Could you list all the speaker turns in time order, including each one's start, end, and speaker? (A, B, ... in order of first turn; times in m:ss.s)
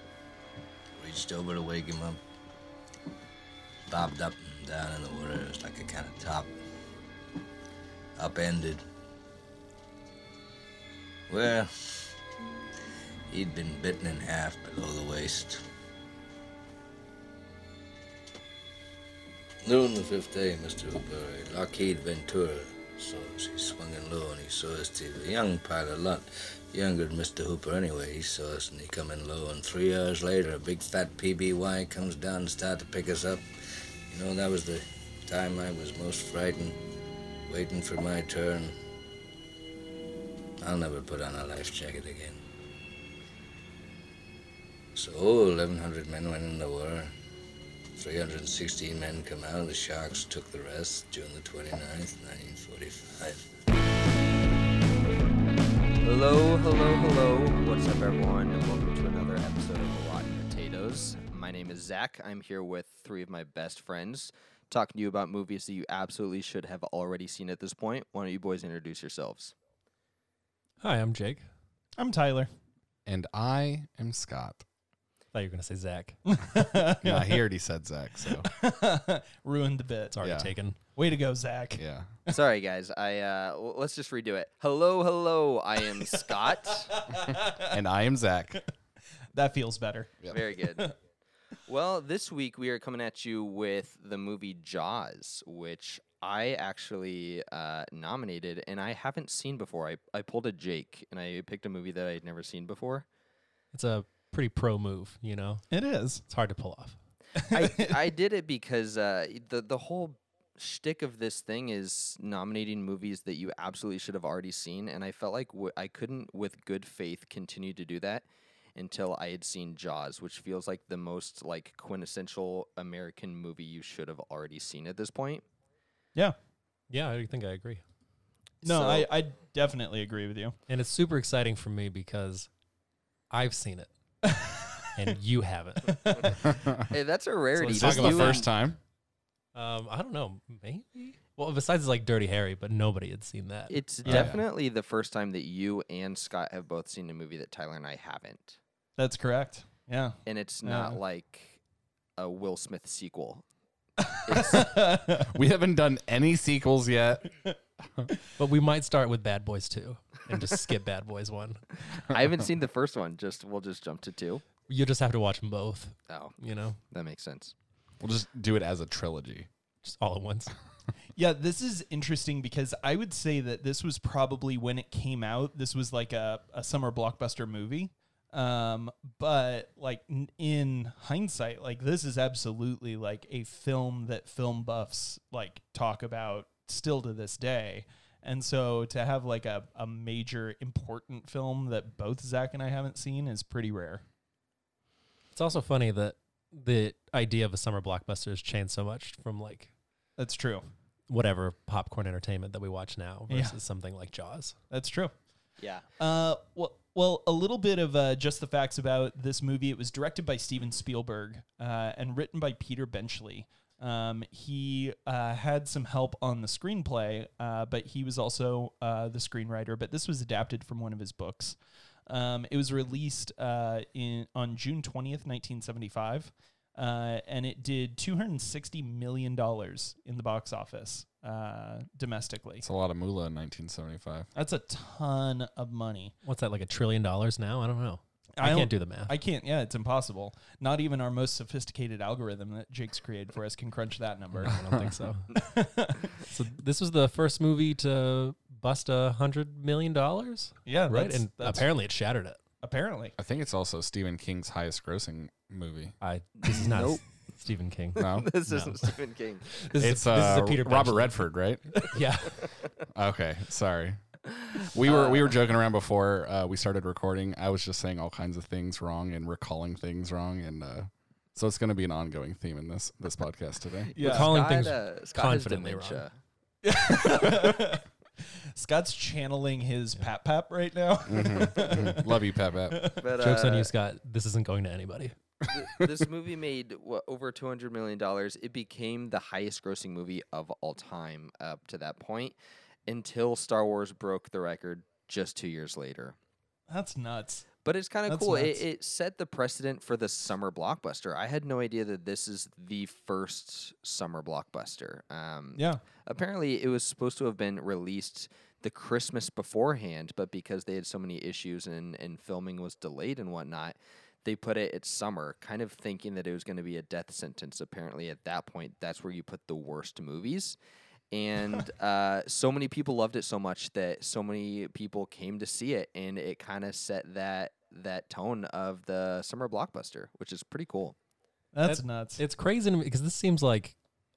0:01.0-0:02.2 A
0:03.9-0:06.5 A
0:08.2-0:08.8 A
0:11.3-0:12.1 A
0:13.3-0:15.6 A
0:19.6-0:33.4 A
0:34.1-0:36.8 A
0:37.5-0:38.7 A
0:40.6-0:42.4 A
0:45.0-0:47.1 A
0:48.0-0:53.5 A
0:56.0-1:09.5 B
1:10.8-1:11.4 C
1:12.0-1:12.5 D
1:13.1-1:14.6 E
1:15.3-1:16.2 C
1:16.3-1:17.4 D
1:17.0-1:18.5 E
1:18.2-1:20.2 D
1:20.1-1:20.8 C
1:20.2-1:20.5 E
1:21.0-1:21.8 D
1:21.8-1:22.1 E
1:22.3-1:27.0 B
1:27.0-1:27.8 D
1:27.3-1:28.6 E
1:29.3-1:30.9 D
1:30.3-1:30.9 B
1:31.7-1:43.1 B
1:43.7-1:45.6 C
1:45.7-1:46.2 D
1:46.3-1:47.0 C
1:47.4-1:48.0 D
1:47.5-2:05.4 B
2:06.9-2:07.8 C
2:08.6-2:10.6 D
2:08.7-2:09.1 B
2:10.7-2:12.5 C
2:13.3-2:13.9 C
2:14.2-2:14.8 D
2:14.9-2:16.3 C
2:16.1-2:18.4 B
2:16.5-2:16.8 E
2:17.5-2:18.5 C
2:17.7-2:18.8 E
2:19.5-2:23.8 C
2:23.7-2:28.6 B
2:24.0-2:24.4 E
2:24.0-2:24.3 D
2:29.0-2:31.0 D
2:30.2-2:31.6 B
2:32.2-2:33.4 B
2:34.1-2:35.3 D
2:34.2-2:34.8 B
2:35.2-2:37.3 E
2:38.4-2:41.6 C
2:41.9-2:44.4 B
2:44.7-2:46.8 C
2:46.1-2:47.5 B
2:48.0-2:49.5 E
2:49.8-2:50.5 C
2:51.2-3:14.0 D
3:15.3-3:19.7 C
3:20.2-3:20.7 D
3:21.1-3:24.6 C
3:23.3-3:23.6 D
3:24.7-3:25.1 D
3:25.6-3:25.8 B
3:26.0-3:41.6 D
3:42.1-3:52.6 D
3:52.6-3:54.3 E
3:54.3-3:56.1 D
3:56.2-3:59.1 C
3:58.4-4:04.6 D
4:04.3-4:05.4 C
4:04.6-4:04.9 E
4:05.3-4:06.2 D
4:06.2-4:12.4 C
4:10.7-4:11.7 D
4:12.6-4:13.1 D
4:13.2-4:15.9 E
4:16.0-4:18.9 C
4:16.4-4:17.0 B
4:17.9-4:18.3 E
4:18.0-4:19.6 B
4:19.5-4:21.2 C
4:19.8-4:21.8 E
4:21.8-4:22.4 C
4:22.9-4:24.0 E
4:24.2-4:25.4 B
4:24.6-4:33.9 E
4:33.8-4:36.2 B
4:34.0-4:34.3 D
4:34.0-4:36.0 C
4:36.6-4:37.8 D
4:38.5-4:43.0 D
4:41.1-4:42.9 E
4:43.0-4:43.7 B
4:43.1-4:45.1 C
4:45.5-4:52.3 B
4:52.9-4:56.2 B
4:56.7-4:57.5 D
4:57.6-5:20.6 B
4:58.1-4:58.6 D
5:05.6-5:05.8 D
5:21.1-5:30.9 B
5:31.5-5:32.2 D
5:31.6-5:33.8 C